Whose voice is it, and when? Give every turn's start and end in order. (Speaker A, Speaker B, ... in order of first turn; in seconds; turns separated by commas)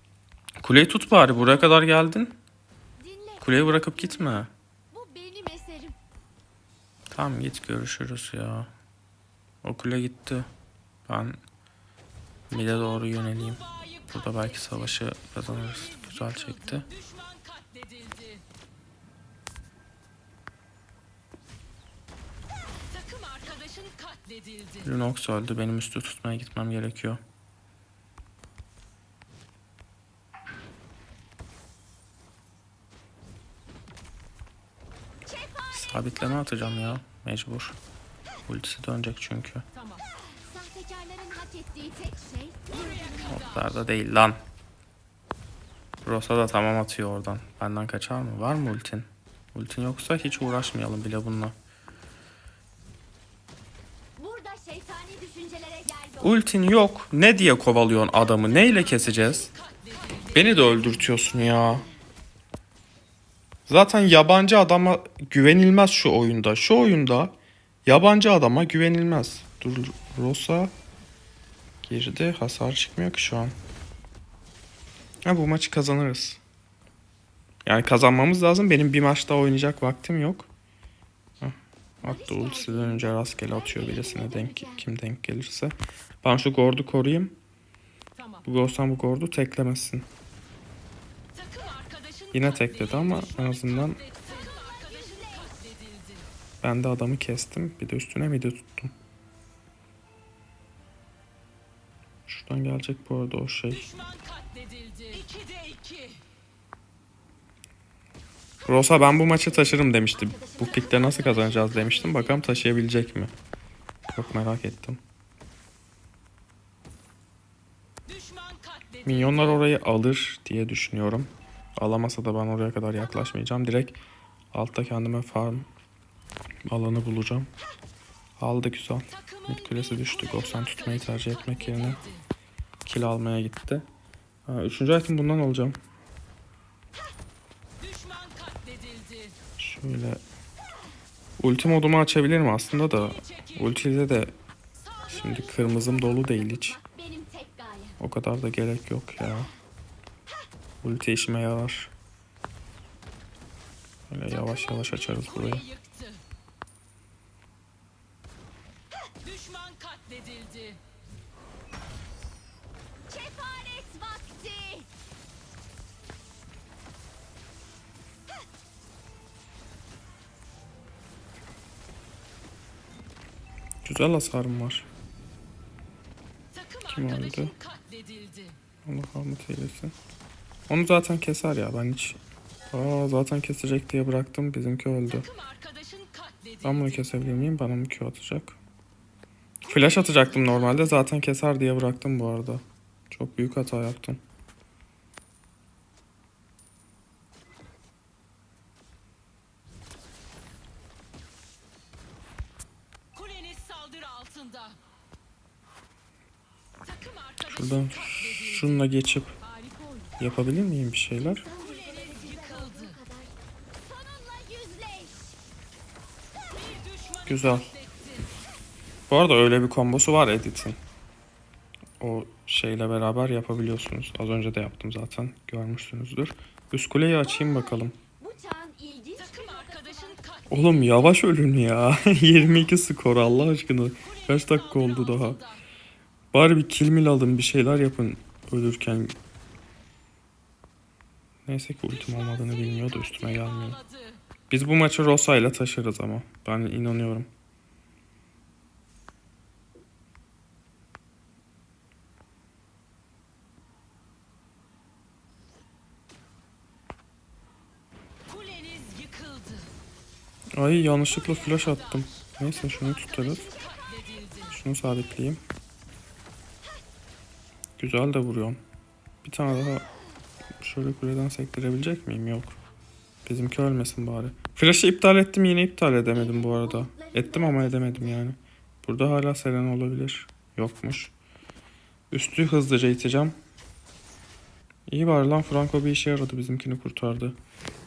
Speaker A: 0.6-2.4, Speaker B: 1.2-1.8, Speaker B: 3.0-6.0, Speaker A: 3.4-4.5, Speaker A: 7.1-8.7, Speaker A: 9.6-10.5, Speaker A: 11.1-11.4, Speaker A: 12.5-16.9, Speaker A: 24.8-27.2, Speaker B: 35.3-37.0, Speaker A: 35.7-37.8, Speaker A: 38.5-39.6, Speaker B: 40.5-43.7, Speaker A: 43.3-44.4, Speaker A: 46.0-51.5, Speaker B: 54.2-56.4, Speaker A: 56.2-59.5, Speaker A: 60.3-61.9, Speaker A: 63.7-67.3, Speaker A: 67.9-70.7, Speaker A: 71.8-73.5, Speaker A: 75.3-76.4, Speaker A: 77.7-80.5, Speaker A: 81.4-87.4, Speaker B: 82.0-84.9, Speaker A: 88.5-90.1, Speaker A: 92.3-94.0, Speaker B: 94.2-95.6, Speaker A: 96.6-98.9, Speaker A: 102.3-103.9, Speaker A: 108.7-113.3, Speaker B: 109.0-112.7, Speaker A: 114.1-115.0, Speaker A: 119.0-124.0, Speaker A: 124.5-125.7, Speaker A: 126.7-127.5, Speaker A: 128.4-132.0, Speaker A: 132.8-133.9, Speaker A: 134.4-135.8, Speaker A: 139.6-140.2, Speaker A: 141.4-144.3, Speaker A: 145.1-146.8, Speaker B: 145.1-148.0, Speaker A: 148.0-149.5, Speaker A: 150.8-151.9, Speaker A: 154.1-155.7, Speaker B: 154.4-155.9, Speaker C: 159.7-160.7, Speaker B: 163.1-164.9, Speaker A: 173.8-174.9, Speaker A: 176.9-177.6, Speaker A: 178.9-179.9, Speaker A: 180.7-182.2, Speaker A: 182.7-185.3, Speaker A: 186.6-188.6, Speaker A: 189.6-194.2, Speaker B: 189.7-190.9, Speaker C: 203.4-204.7, Speaker A: 207.4-209.3, Speaker A: 210.2-211.4, Speaker B: 211.2-213.3, Speaker B: 213.9-215.3, Speaker A: 217.3-217.8, Speaker A: 219.1-220.8, Speaker A: 222.0-227.9, Speaker B: 228.2-230.3, Speaker A: 230.5-235.5, Speaker A: 236.3-239.2, Speaker A: 241.5-243.8, Speaker A: 244.5-247.3, Speaker C: 258.5-259.5, Speaker A: 260.6-263.5, Speaker A: 264.5-265.4, Speaker A: 267.8-268.6, Speaker A: 269.2-269.9, Speaker A: 270.6-272.6, Speaker A: 273.2-281.1, Speaker B: 276.1-278.2, Speaker A: 282.1-283.4, Speaker A: 284.9-287.4